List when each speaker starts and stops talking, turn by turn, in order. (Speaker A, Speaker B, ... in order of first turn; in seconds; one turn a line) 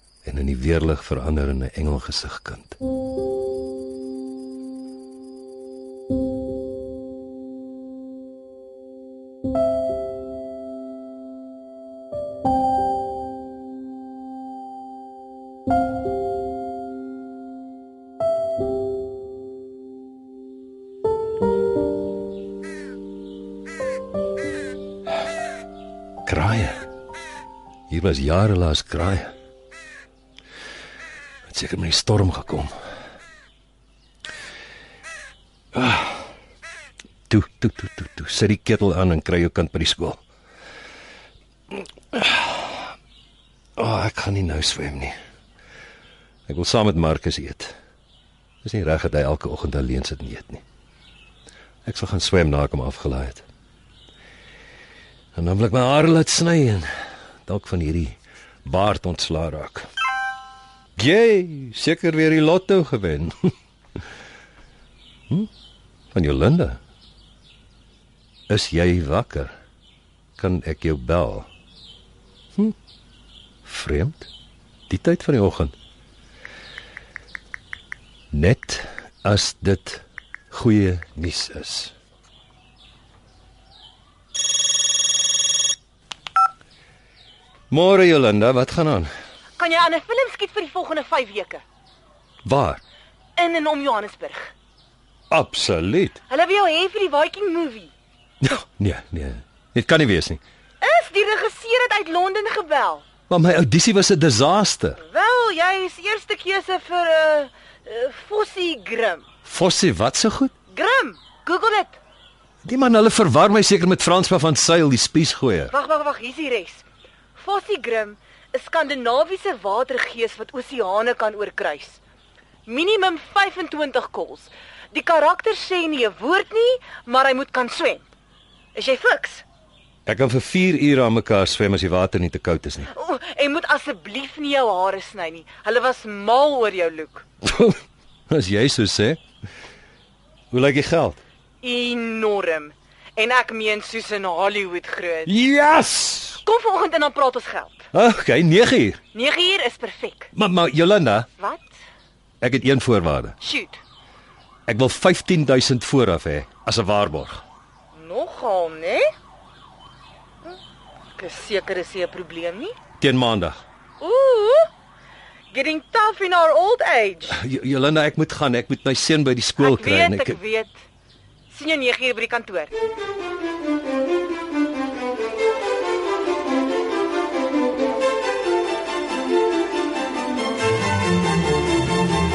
Speaker A: 0.2-2.8
Speaker A: 26.2-26.8
Speaker A: 27.9-29.4
Speaker A: 31.5-32.7
Speaker A: 35.7-36.3
Speaker A: 37.3-40.2
Speaker A: 41.7-42.9
Speaker A: 43.8-45.1
Speaker A: 46.5-47.8
Speaker A: 48.6-50.6
Speaker A: 51.9-53.4
Speaker A: 55.4-56.9
Speaker A: 57.5-59.9
Speaker A: 61.0-63.5
Speaker A: 66.1-66.8
Speaker A: 68.5-69.5
Speaker A: 70.4-71.5
Speaker A: 73.7-74.3
Speaker A: 74.9-75.7
Speaker A: 78.3-81.9
Speaker A: 87.7-89.1
Speaker B: 89.6-91.6
Speaker A: 92.5-92.8
Speaker B: 93.4-94.5
Speaker A: 95.3-96.2
Speaker B: 96.3-97.9
Speaker A: 98.4-100.4
Speaker B: 100.8-103.0
Speaker A: 103.3-105.0
Speaker B: 105.0-109.3
Speaker A: 109.5-110.5
Speaker B: 110.7-112.0
Speaker A: 112.6-115.7
Speaker B: 115.7-116.8
Speaker B: 117.4-122.0
Speaker B: 122.7-128.1
Speaker B: 128.8-129.4
Speaker A: 130.1-132.9
Speaker B: 132.9-137.2
Speaker A: 137.4-139.2
Speaker A: 140.5-141.2
Speaker B: 141.6-145.3
Speaker A: 145.3-146.4
Speaker B: 146.4-147.9
Speaker A: 147.9-149.0
Speaker B: 149.1-150.3
Speaker A: 150.3-151.3
Speaker B: 151.4-151.7
Speaker A: 152.4-153.3
Speaker B: 153.4-153.8
Speaker A: 154.7-157.4
Speaker B: 157.9-159.1
Speaker B: 161.2-162.8
Speaker A: 163.0-163.6
Speaker B: 164.0-164.7
Speaker B: 165.5-167.4
Speaker A: 167.3-170.4
Speaker B: 169.6-170.8
Speaker B: 171.5-172.7